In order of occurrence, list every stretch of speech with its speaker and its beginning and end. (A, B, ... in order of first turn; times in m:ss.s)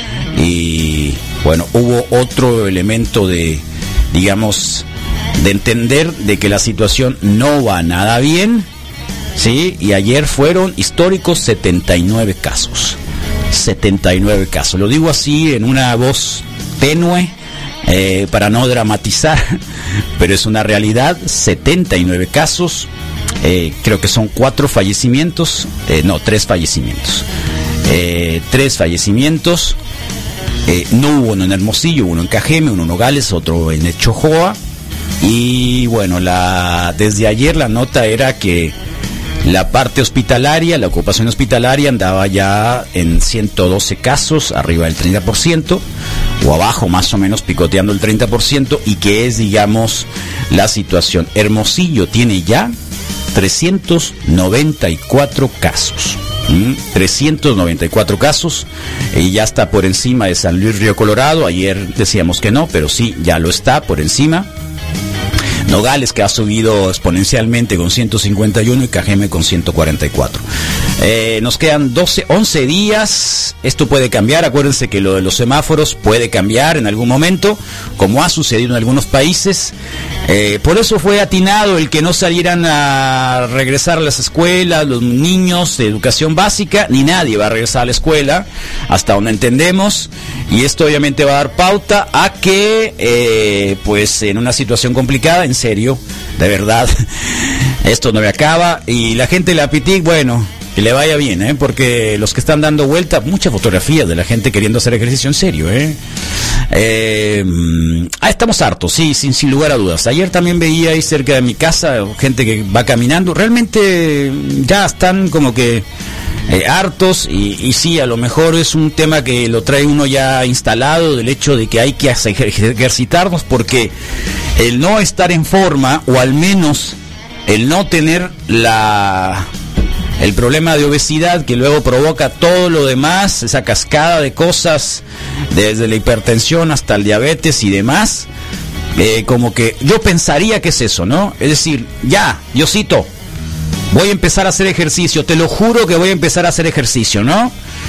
0:00.4-0:08.7 A
0:09.4-0:13.0 A
0:13.5-0:17.3 A
0:17.9-0:19.6 A
0:20.2-0:22.9 A
0:23.4-0:27.3 A
0:27.8-0:29.8 A
0:30.7-0:34.6 A
0:35.2-0:38.8 A
0:39.4-0:45.8 A
0:46.4-0:52.7 A
0:53.3-1:04.5 A
1:05.7-1:10.4 A
1:11.0-1:19.8 A
1:20.3-1:36.9 A
1:37.8-1:46.0 A
1:46.7-1:55.8 A
1:56.5-2:03.9 A
2:04.6-2:07.0 A
2:07.5-2:09.5 A
2:10.2-2:18.3 A
2:19.0-2:23.1 A
2:23.9-2:27.5 A